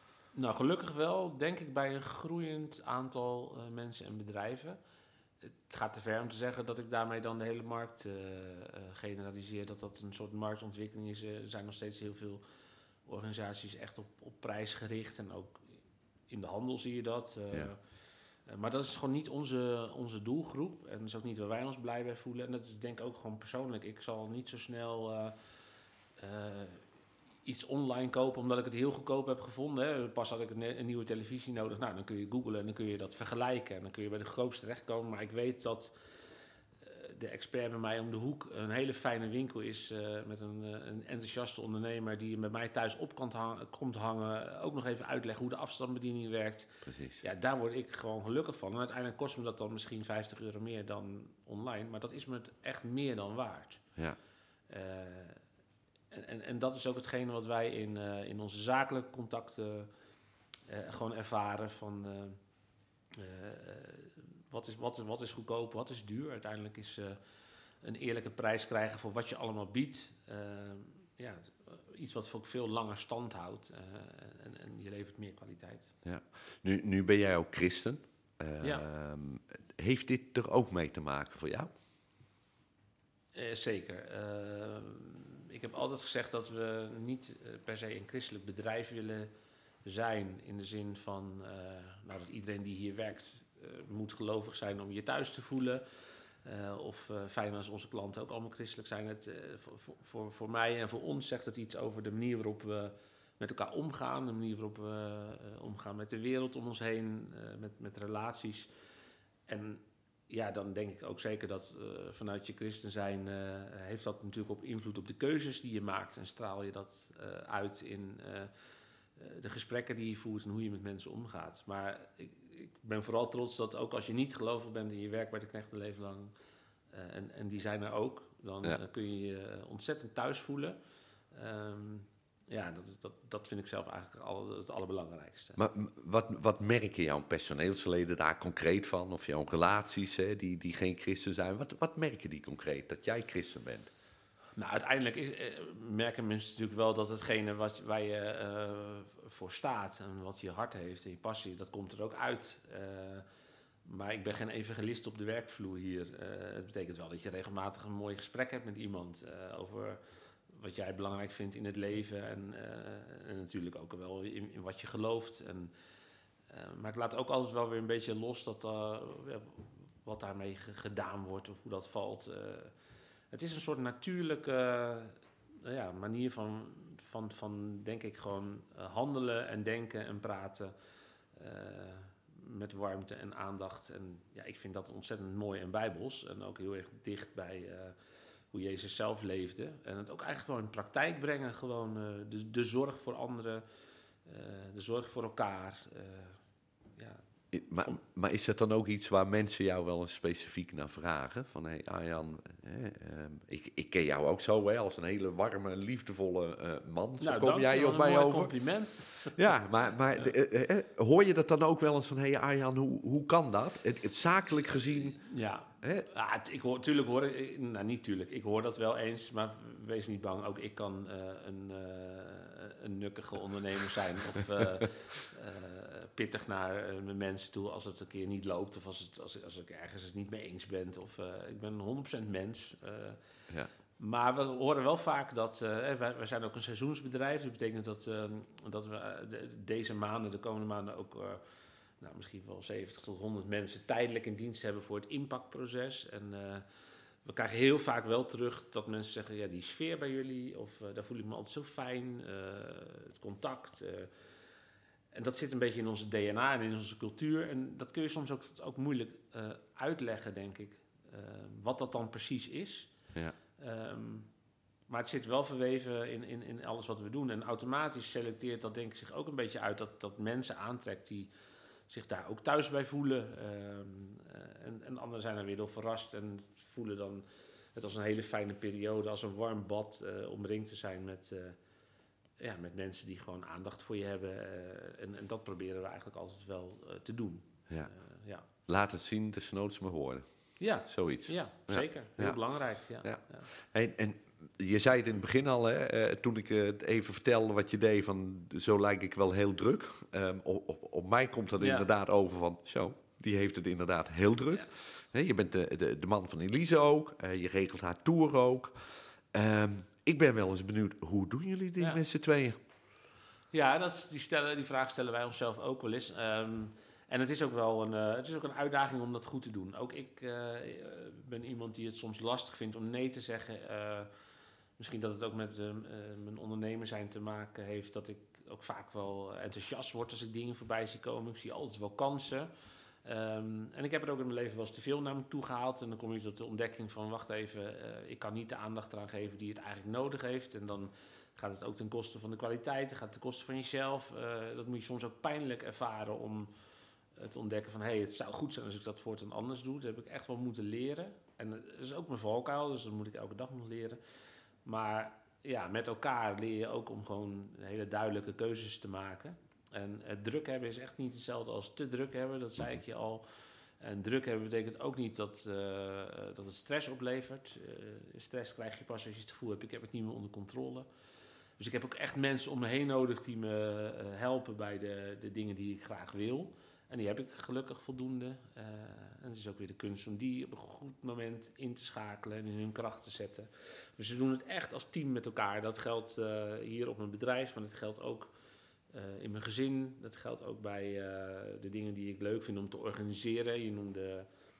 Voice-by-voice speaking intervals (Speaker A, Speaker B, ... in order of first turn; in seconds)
Speaker A: 0.3-4.8, 5.4-12.4, 13.1-15.6, 16.3-17.8, 18.5-25.4, 26.2-26.8, 27.4-35.9, 36.8-53.8, 54.7-55.4, 56.1-59.9, 60.7-62.4, 63.1-67.2, 67.8-75.9, 83.3-89.3, 89.8-95.8, 96.4-108.7, 109.5-118.5, 119.2-126.3, 126.9-130.8, 131.3-135.6, 144.6-153.2, 153.8-165.7, 166.5-172.7, 173.3-180.7, 181.3-187.9, 188.5-193.6, 194.2-196.4, 196.9-197.2, 207.2-209.4, 214.9-233.2, 234.0-241.4, 242.0-246.6, 247.2-254.1, 255.1-262.9, 263.6-264.3, 264.9-271.3, 271.9-277.2, 277.7-281.6, 282.4-288.4, 290.6-293.5, 301.6-301.9, 313.5-324.1, 324.8-332.5, 333.0-346.5, 347.1-354.0, 354.6-363.2, 363.8-370.9, 371.6-388.3, 388.9-394.3
Speaker B: 46.8-47.2, 76.0-81.7, 135.6-143.9, 197.5-208.5, 209.2-215.2, 215.8-216.1, 288.6-290.2, 290.8-292.4, 293.0-308.8, 309.3-312.6